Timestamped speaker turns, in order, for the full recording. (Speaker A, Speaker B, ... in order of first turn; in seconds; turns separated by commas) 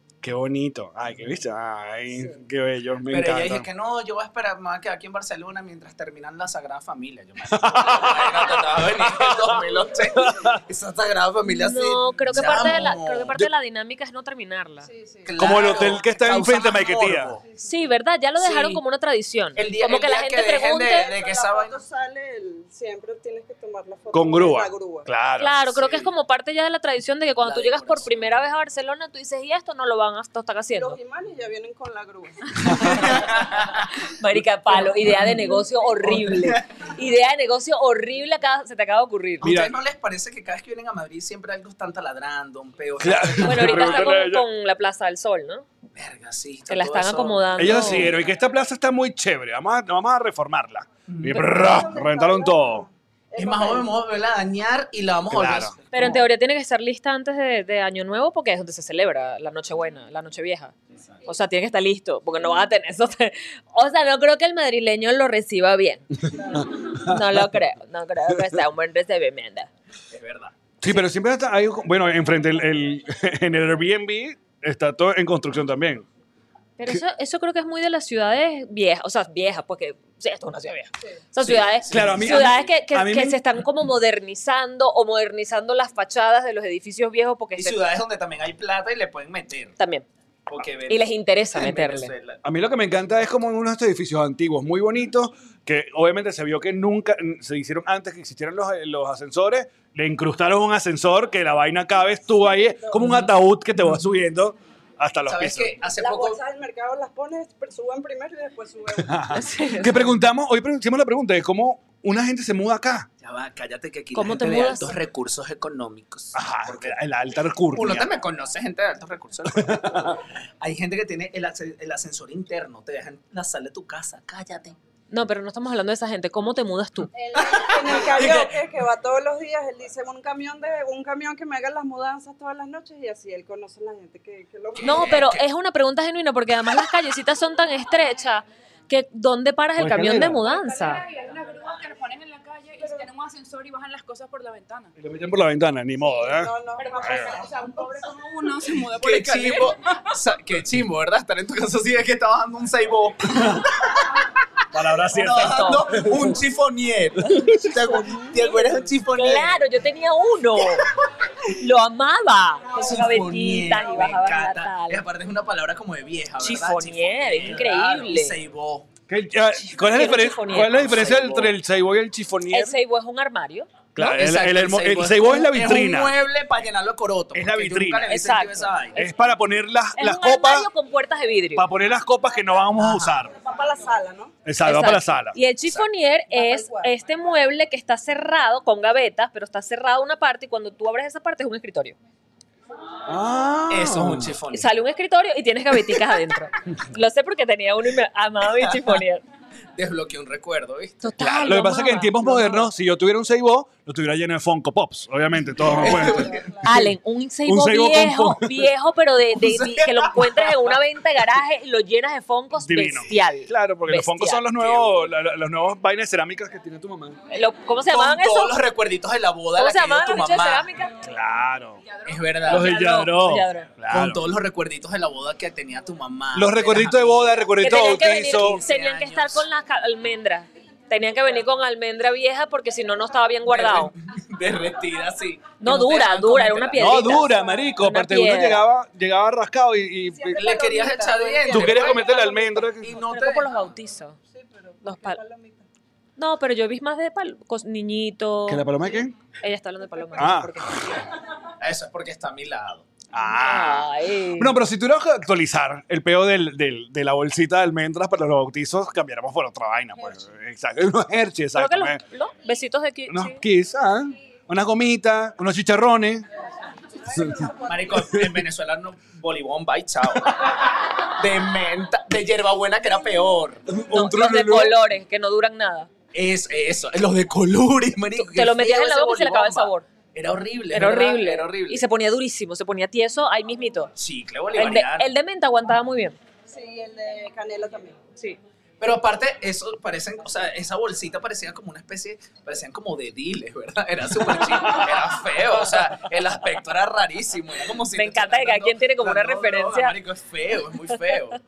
Speaker A: 0.2-3.7, Speaker B: 3.1-13.4, Speaker A: 7.5-10.6, Speaker C: 11.4-14.9, Speaker D: 14.8-15.6, Speaker B: 15.2-17.4, Speaker A: 15.4-17.4, Speaker C: 17.6-21.1, Speaker B: 18.4-18.8, Speaker B: 19.6-21.8, Speaker D: 21.0-25.1, Speaker A: 24.1-25.8, Speaker C: 25.4-31.0, Speaker B: 25.7-26.1, Speaker B: 27.4-28.1, Speaker D: 30.7-32.9, Speaker C: 32.6-39.5, Speaker B: 32.8-33.9, Speaker B: 36.0-36.8, Speaker A: 39.4-39.7, Speaker B: 39.4-44.1, Speaker A: 43.0-44.5, Speaker C: 43.4-45.6, Speaker B: 45.9-48.1, Speaker C: 46.7-48.1, Speaker A: 47.6-52.9, Speaker B: 51.1-51.5, Speaker D: 51.3-54.0, Speaker B: 53.4-56.2, Speaker A: 55.3-55.7, Speaker C: 55.9-69.7, Speaker B: 70.1-70.5, Speaker A: 70.8-76.0, Speaker C: 76.8-87.8, Speaker B: 81.4-82.7, Speaker A: 81.9-83.4, Speaker B: 87.5-89.7, Speaker C: 89.8-90.0, Speaker B: 90.5-92.4, Speaker C: 90.9-92.1, Speaker A: 92.4-105.8, Speaker B: 105.3-106.4, Speaker D: 106.0-109.4, Speaker A: 109.0-113.1, Speaker C: 109.3-110.2, Speaker B: 113.2-117.0, Speaker C: 114.1-114.9, Speaker A: 116.3-118.1, Speaker B: 117.7-124.8, Speaker A: 119.5-120.2, Speaker C: 125.1-127.1, Speaker D: 127.1-135.2, Speaker B: 127.4-128.6, Speaker A: 128.2-128.4, Speaker B: 134.8-135.4, Speaker C: 134.8-141.0, Speaker A: 139.8-140.5, Speaker E: 140.5-144.9, Speaker D: 142.8-143.1, Speaker A: 145.0-147.3, Speaker D: 146.0-147.9, Speaker E: 146.8-149.9, Speaker B: 149.0-154.2, Speaker A: 154.7-156.4, Speaker B: 155.1-159.6, Speaker C: 155.2-155.8, Speaker C: 158.2-160.8, Speaker C: 161.5-165.1, Speaker B: 162.7-168.9, Speaker C: 166.4-168.3, Speaker A: 169.1-172.8, Speaker C: 169.6-171.5, Speaker C: 172.5-174.1, Speaker A: 173.9-176.2, Speaker B: 174.0-179.0, Speaker A: 177.3-178.2, Speaker C: 178.1-179.1, Speaker A: 178.9-180.7, Speaker C: 179.9-181.7, Speaker A: 181.5-183.3, Speaker B: 182.8-183.2, Speaker D: 183.3-184.3, Speaker A: 184.4-185.4, Speaker C: 184.6-192.0, Speaker D: 186.3-186.9, Speaker A: 193.1-194.4, Speaker B: 193.7-194.7, Speaker C: 194.5-199.2, Speaker B: 198.6-199.0, Speaker B: 199.8-201.0, Speaker C: 201.0-202.7, Speaker A: 201.2-208.7, Speaker B: 205.6-206.6, Speaker D: 205.7-206.7, Speaker C: 206.6-214.4, Speaker B: 209.3-210.7, Speaker A: 212.6-217.2, Speaker B: 214.6-215.1, Speaker C: 217.3-218.6, Speaker B: 217.9-220.7, Speaker C: 219.6-221.0, Speaker A: 221.0-221.8, Speaker B: 222.0-222.8, Speaker C: 222.4-223.7, Speaker A: 222.4-224.2, Speaker B: 223.9-227.5, Speaker A: 226.3-228.6, Speaker C: 227.6-233.9, Speaker B: 228.3-229.5, Speaker B: 233.5-237.2, Speaker C: 235.6-238.7, Speaker A: 236.7-240.4, Speaker D: 240.1-242.9, Speaker B: 240.4-243.6, Speaker A: 241.5-242.9, Speaker C: 242.9-244.2, Speaker D: 244.3-245.7, Speaker C: 244.8-245.2, Speaker C: 246.2-248.7, Speaker A: 248.5-249.1, Speaker C: 249.4-251.0, Speaker A: 250.2-250.6, Speaker B: 251.6-252.8, Speaker A: 253.1-262.0, Speaker C: 253.3-254.5, Speaker C: 261.5-263.4, Speaker A: 263.1-266.2, Speaker D: 266.9-268.0, Speaker A: 267.1-267.4, Speaker B: 267.7-273.7, Speaker A: 267.9-268.4, Speaker A: 273.7-274.8, Speaker C: 273.9-275.9, Speaker B: 276.1-281.8, Speaker C: 278.2-279.9, Speaker C: 280.7-283.9, Speaker B: 283.9-285.1, Speaker C: 284.5-286.2, Speaker D: 286.5-288.0, Speaker B: 288.8-301.4, Speaker C: 297.9-299.9